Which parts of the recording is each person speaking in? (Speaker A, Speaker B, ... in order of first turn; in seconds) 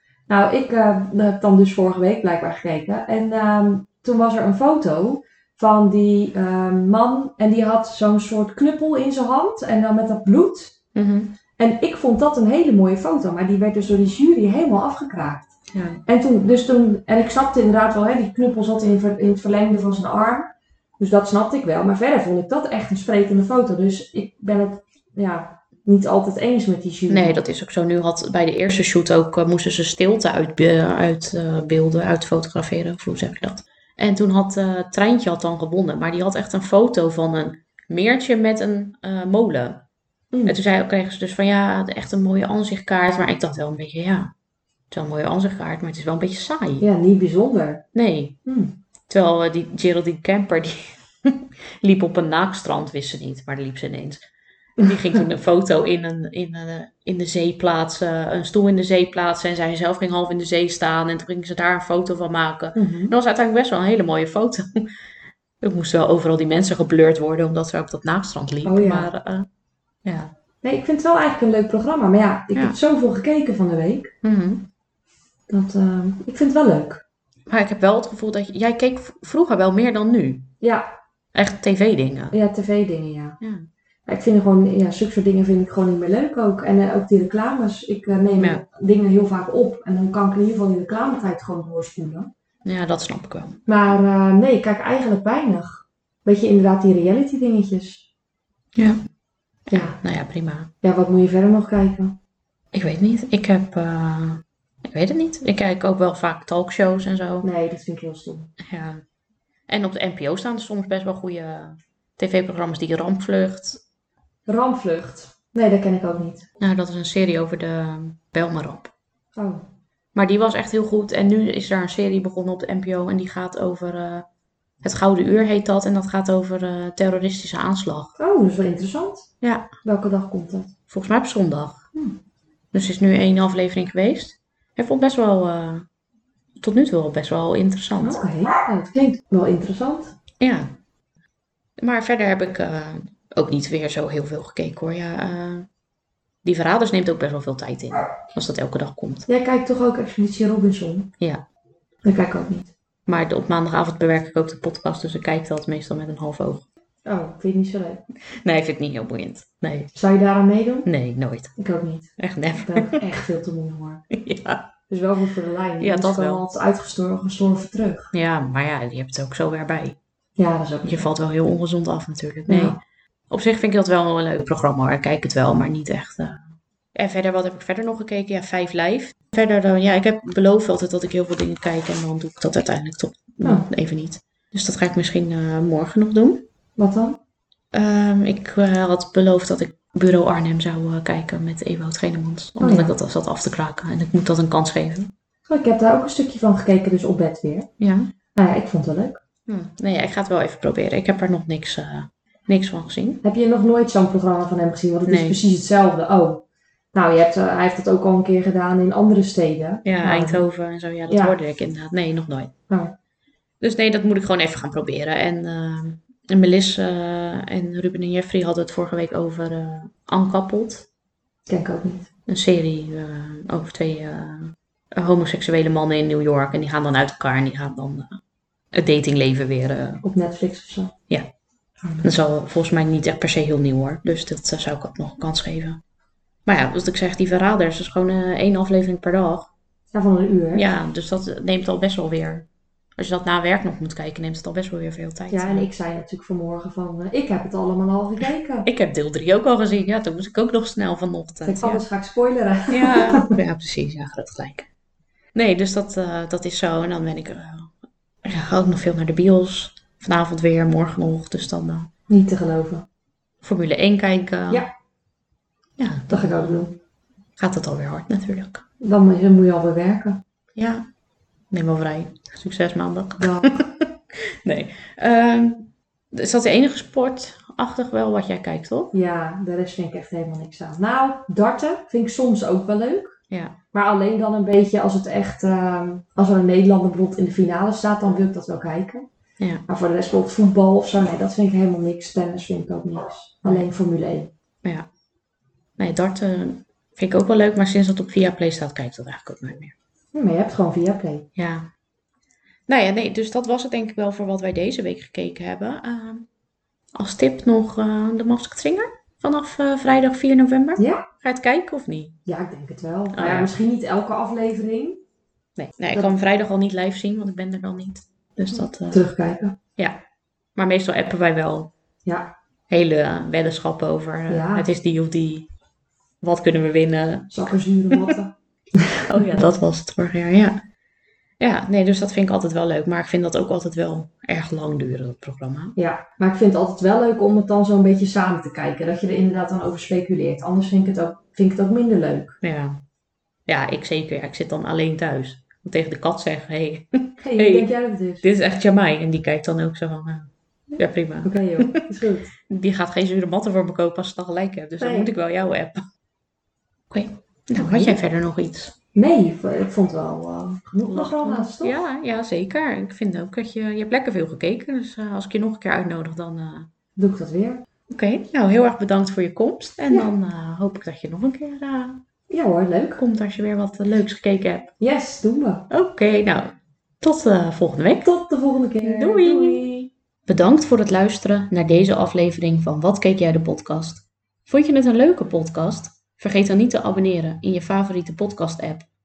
Speaker A: 0.3-10.8, 11.6-15.5, 16.1-27.4, 40.3-40.6, 46.8-47.9, 48.5-48.8, 62.8-63.1, 68.6-69.1, 70.6-74.1, 75.5-77.0, 80.6-80.9, 82.3-83.4, 84.1-92.3, 93.7-98.1, 99.7-100.0, 100.8-102.2, 107.4-108.5, 114.5-116.5, 119.3-119.6, 128.2-129.3, 129.8-130.7, 138.0-140.1, 149.3-151.1, 152.0-152.7, 157.1-158.0, 159.9-160.9, 161.6-164.0, 164.9-168.1, 170.4-171.1, 172.5-172.8, 186.8-187.2, 192.6-192.9, 195.5-197.7, 198.4-199.2, 203.2-210.4, 211.1-211.4, 221.5-222.1, 230.0-230.9, 231.8-232.1, 239.9-240.7, 245.3-248.7, 251.4-253.4, 262.1-262.9, 266.1-266.7, 268.8-270.2, 273.2-273.6, 278.9-283.1, 283.7-289.1, 289.7-294.3, 300.1-301.3, 310.8-311.0, 312.3-315.0, 318.9-319.6, 322.1-322.3, 324.3-324.7, 327.3-329.0, 335.8-342.4, 347.2-348.2, 351.2-352.3, 354.8-355.1, 357.6-358.0, 358.9-361.8, 367.0-367.6, 372.3-373.0, 374.8-375.7, 378.0-379.9
Speaker B: 10.9-11.3, 15.7-16.0, 27.1-39.8, 40.5-44.3, 44.9-46.9, 47.9-48.4, 49.1-54.2, 54.8-64.9, 65.6-69.5, 70.0-70.3, 74.2-74.7, 77.5-80.5, 81.3-82.4, 83.4-83.7, 92.7-93.9, 98.8-99.0, 99.7-100.7, 102.7-107.5, 108.6-109.0, 109.7-113.8, 116.6-118.9, 120.2-124.3, 124.8-128.2, 129.4-129.7, 130.9-132.1, 132.7-135.8, 136.6-138.2, 140.4-140.7, 141.8-145.7, 146.4-149.3, 151.2-151.4, 153.1-156.7, 158.3-159.9, 160.9-161.5, 162.2-163.0, 164.1-164.7, 165.8-166.4, 168.1-170.0, 170.8-176.4, 176.9-186.4, 187.7-195.1, 197.8-198.1, 199.5-203.2, 205.1-205.4, 209.8-212.5, 213.6-220.9, 222.3-228.2, 228.7-230.0, 232.0-235.8, 236.5-239.5, 240.5-242.4, 243.0-245.7, 248.6-251.8, 252.7-254.7, 255.3-257.7, 258.2-261.9, 263.4-264.7, 265.8-266.6, 267.4-268.6, 270.6-270.9, 271.5-278.9, 283.3-283.6, 295.8-299.7, 301.4-301.7, 302.7-306.3, 306.9-312.2, 313.1-313.5, 315.6-319.0, 320.6-321.7, 322.7-325.5, 326.2-328.2, 329.1-330.6, 331.4-335.8, 342.4-342.8, 343.5-347.7, 348.2-351.9, 352.4-355.9, 356.9-358.8, 360.9-366.7, 367.9-372.0, 373.0-374.7, 375.7-378.1, 378.8-379.7, 380.3-388.9